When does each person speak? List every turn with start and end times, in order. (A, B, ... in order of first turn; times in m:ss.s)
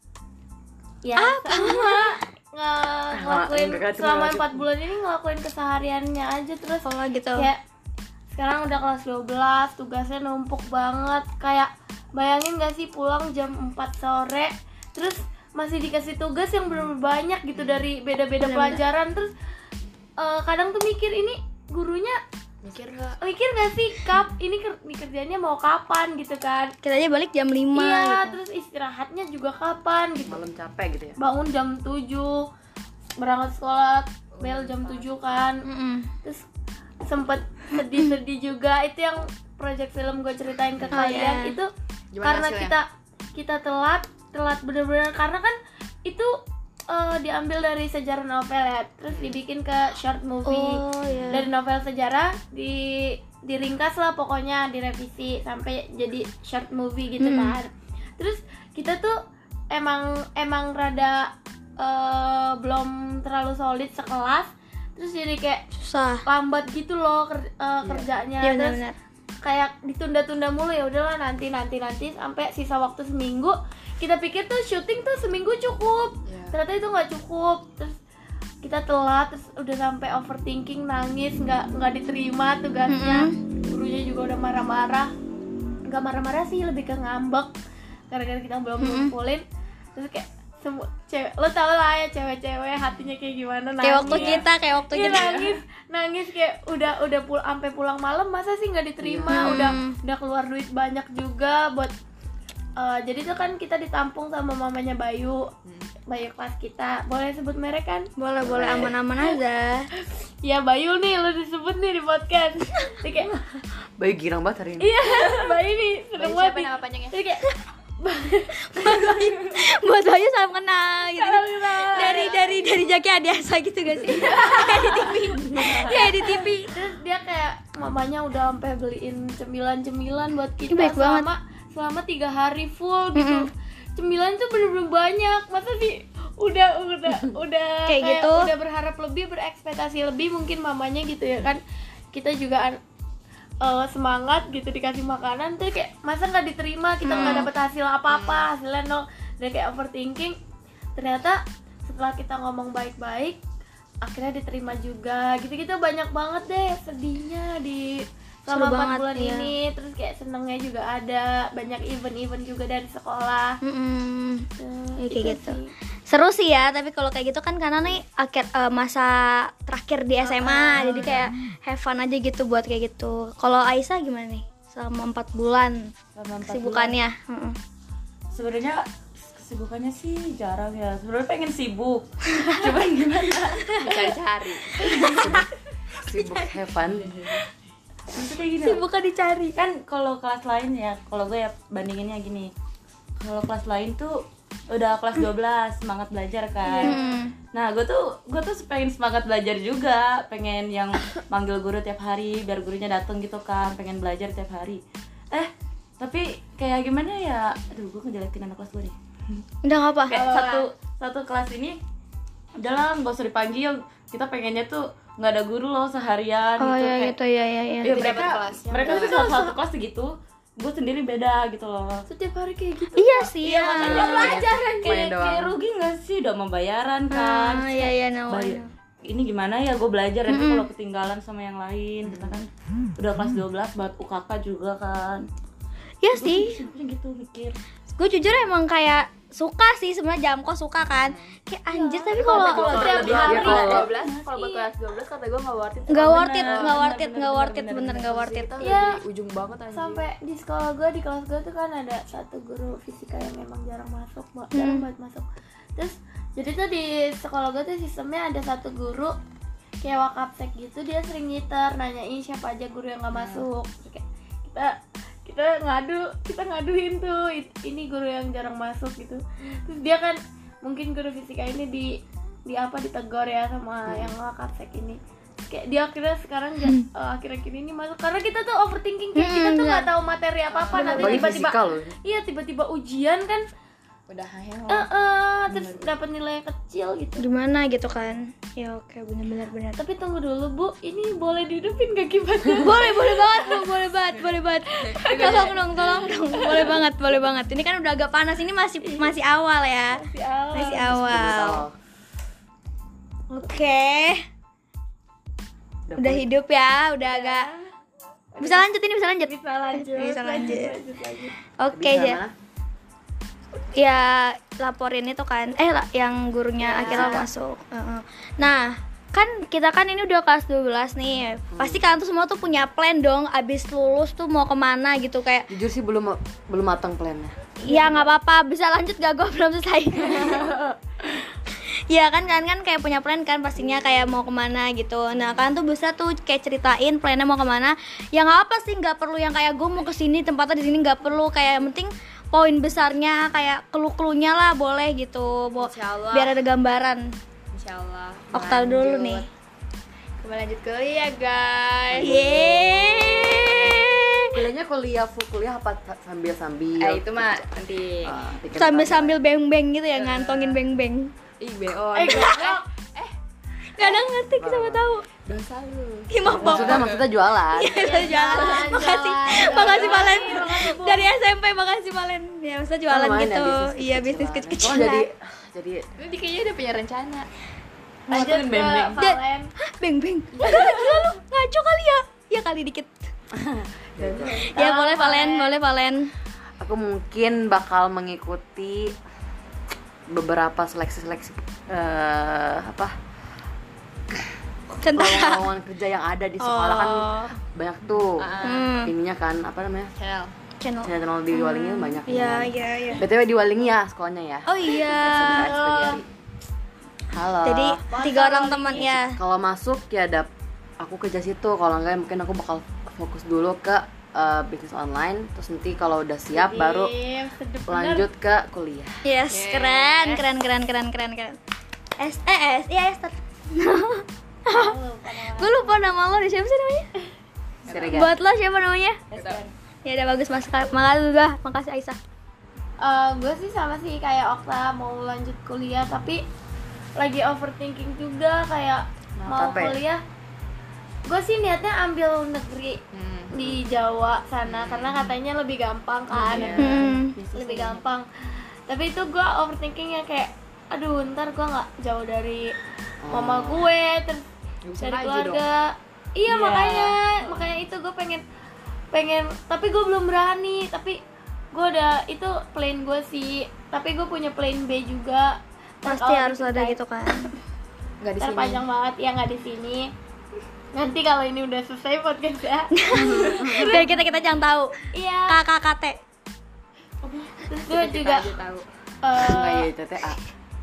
0:01.0-0:07.6 A
0:01.2-0:02.1 B
0:03.1-0:04.6 C
0:06.8-0:07.5 B
0:08.3-0:19.3 A
0:18.4-0:18.8 B
0:20.2-0:22.2 A
0:22.6-0:23.2 D
0:23.2-0:26.7 A
0:26.8-0:28.4 B
0:27.7-0:30.4 A
0:30.2-0:31.2 C
0:31.2-0:32.4 A
0:33.2-0:35.6 A
0:34.3-0:35.2 D
0:35.6-0:36.1 B
0:37.0-0:46.4 A
0:40.9-0:41.6 B
0:42.1-0:42.8 D
0:46.9-1:05.6 A
0:50.4-0:51.5 B
0:57.2-0:57.6 B
1:05.7-1:06.2 B
1:06.2-1:08.8 A
1:08.4-1:09.0 B
1:09.4-1:18.0 A
1:16.3-1:16.6 D
1:18.6-1:25.1 A
1:22.9-1:23.4 B
1:25.8-1:27.5 A
1:28.1-1:29.4 A
1:28.8-1:29.1 B
1:29.9-1:41.9 A
1:33.8-1:35.4 B
1:34.0-1:34.4 E
1:35.0-1:35.5 E
1:39.0-1:39.7 C
1:39.3-1:40.0 B
1:42.8-1:45.5 A
1:45.6-1:45.9 D
1:46.1-1:48.9 A
1:48.2-1:49.9 B
1:50.0-1:53.3 A
1:54.0-1:55.1 C
1:54.8-1:57.5 A
1:56.2-1:57.2 D
1:58.0-1:59.3 A
1:58.6-2:06.7 B
2:01.2-2:02.8 A
2:04.1-2:21.6 A
2:10.7-2:11.3 B
2:13.1-2:13.5 B
2:17.9-2:18.5 B
2:22.1-2:22.8 A
2:23.6-2:30.4 A
2:27.0-2:27.5 B
2:28.1-2:28.4 D
2:31.0-2:33.4 A
2:34.0-2:43.6 A
2:38.5-2:39.5 B
2:43.6-2:44.4 B
2:44.6-2:45.7 A
2:45.0-2:57.6 B
2:50.2-2:51.2 A
2:56.1-2:57.0 E
2:58.3-3:04.0 E
3:02.4-3:02.6 B
3:03.8-3:04.9 D
3:04.8-3:05.3 E
3:05.1-3:05.4 B
3:05.2-3:05.5 C
3:06.0-3:07.2 C
3:08.1-3:08.8 E
3:08.6-3:09.6 B
3:09.6-3:12.5 E
3:13.2-3:17.0 E
3:16.6-3:17.2 A
3:16.8-3:17.3 B
3:17.5-3:24.8 E
3:25.3-3:28.9 E
3:29.6-3:30.2 B
3:30.1-3:31.8 E
3:30.1-3:30.7 A
3:32.6-3:37.1 E
3:36.6-3:38.2 B
3:37.8-3:42.0 E
3:37.8-3:39.2 D
3:38.8-3:39.6 A
3:42.1-3:44.9 A
3:43.0-3:44.4 B
3:43.4-3:55.3 E
3:44.0-3:45.6 C
3:47.1-3:48.7 B
3:50.3-3:50.7 B
3:52.1-3:52.4 D
3:56.0-3:56.6 B
3:56.1-3:57.6 E
3:58.0-4:03.3 B
4:00.9-4:01.3 D
4:01.7-4:04.7 A
4:02.1-4:06.8 D
4:02.4-4:04.0 E
4:03.2-4:03.9 C
4:05.9-4:08.5 B
4:06.0-4:08.0 E
4:07.9-4:10.0 D
4:08.6-4:09.0 A
4:09.7-4:19.2 A
4:14.5-4:14.8 B
4:19.8-4:31.9 A
4:23.1-4:23.4 D
4:32.4-4:43.4 A
4:33.8-4:34.1 C
4:39.2-4:39.9 B
4:40.5-4:41.3 D
4:40.7-4:41.3 B
4:40.9-4:41.9 C
4:44.1-4:44.9 D
4:44.7-4:47.2 A
4:45.5-4:45.9 D
4:47.2-4:49.8 B
4:49.8-4:53.8 A
4:52.6-5:01.6 B
4:54.9-4:56.8 A
4:55.0-4:55.6 D
4:58.8-4:59.1 A
4:59.9-5:01.1 A
5:00.8-5:01.7 C
5:03.4-5:04.2 B
5:05.9-5:06.2 C
5:06.0-5:07.5 B
5:07.0-5:07.7 A
5:08.3-5:08.7 A
5:08.4-5:10.7 B
5:09.2-5:11.3 A
5:11.6-5:12.2 B
5:11.7-5:12.3 C
5:13.7-5:25.5 B
5:16.6-5:17.3 A
5:16.8-5:17.3 C
5:21.5-5:21.8 C
5:25.5-5:27.3 C
5:27.6-5:30.6 B
5:31.9-5:47.1 B
5:45.6-5:46.4 D
5:47.5-5:49.3 D
5:48.3-5:49.2 B
5:50.2-5:53.5 D
5:51.9-5:52.4 C
5:52.0-5:54.3 B
5:54.3-5:57.5 C
5:56.8-5:58.1 D
5:58.0-5:59.2 C
5:58.6-6:01.1 B
5:59.9-6:00.6 D
6:01.4-6:03.1 D
6:01.9-6:02.6 A
6:03.8-6:05.0 B
6:04.3-6:04.8 C
6:05.2-6:07.0 D
6:06.1-6:07.0 B
6:06.4-6:07.8 C
6:07.5-6:15.0 B
6:07.7-6:11.1 A
6:08.4-6:08.6 D
6:09.5-6:10.0 D
6:12.9-6:15.8 C
6:16.0-6:17.3 D
6:18.1-6:19.0 E
6:18.1-6:19.5 A
6:19.0-6:23.1 B
6:20.3-6:21.0 D
6:23.3-6:24.4 C
6:24.0-6:24.5 D
6:24.3-6:25.6 A
6:24.5-6:26.1 B
6:26.6-6:28.9 C
6:30.1-6:32.9 C
6:34.8-6:35.5 B
6:34.8-6:38.3 C
6:36.4-6:37.3 B
6:38.2-6:38.7 D
6:38.4-6:38.9 B
6:38.8-6:39.9 C
6:40.0-6:40.3 D
6:40.6-6:43.0 B
6:40.8-6:46.0 C
6:44.5-6:45.5 B
6:45.3-6:46.0 A
6:47.1-6:47.8 C
6:47.4-6:49.2 B
6:47.9-6:48.3 D
6:47.9-6:48.8 A
6:48.8-6:56.9 C
6:56.3-6:58.1 A
6:57.7-6:59.0 C
6:59.0-7:01.4 B
6:59.3-7:00.2 D
7:02.0-7:04.7 B
7:04.5-7:05.8 A
7:05.4-7:06.9 B
7:07.6-7:08.0 D
7:07.6-7:08.2 C
7:07.9-7:09.0 B
7:09.1-7:09.5 E
7:09.1-7:09.4 D
7:09.8-7:12.0 B
7:12.8-7:16.2 A
7:17.0-7:20.0 A
7:19.2-7:19.8 C
7:21.0-7:28.1 A
7:22.9-7:23.6 D
7:24.4-7:25.0 D
7:26.1-7:27.8 E
7:26.3-7:26.7 D
7:26.3-7:26.6 C
7:26.6-7:27.1 B
7:28.7-7:32.5 A
7:33.0-7:33.6 C
7:33.1-7:34.2 A
7:34.6-7:35.4 D
7:34.8-7:38.2 A
7:36.3-7:37.0 E
7:38.9-7:41.0 A
7:41.5-7:46.8 A
7:45.8-7:47.3 B
7:48.0-7:48.6 D
7:48.2-7:49.9 A
7:50.7-7:54.0 A
7:52.7-7:54.8 B
7:54.9-7:55.4 A
7:55.3-7:56.0 B
7:57.0-7:57.4 E
7:57.5-7:58.4 A
7:57.6-7:58.6 D
7:59.0-7:59.7 A
7:59.2-8:00.2 C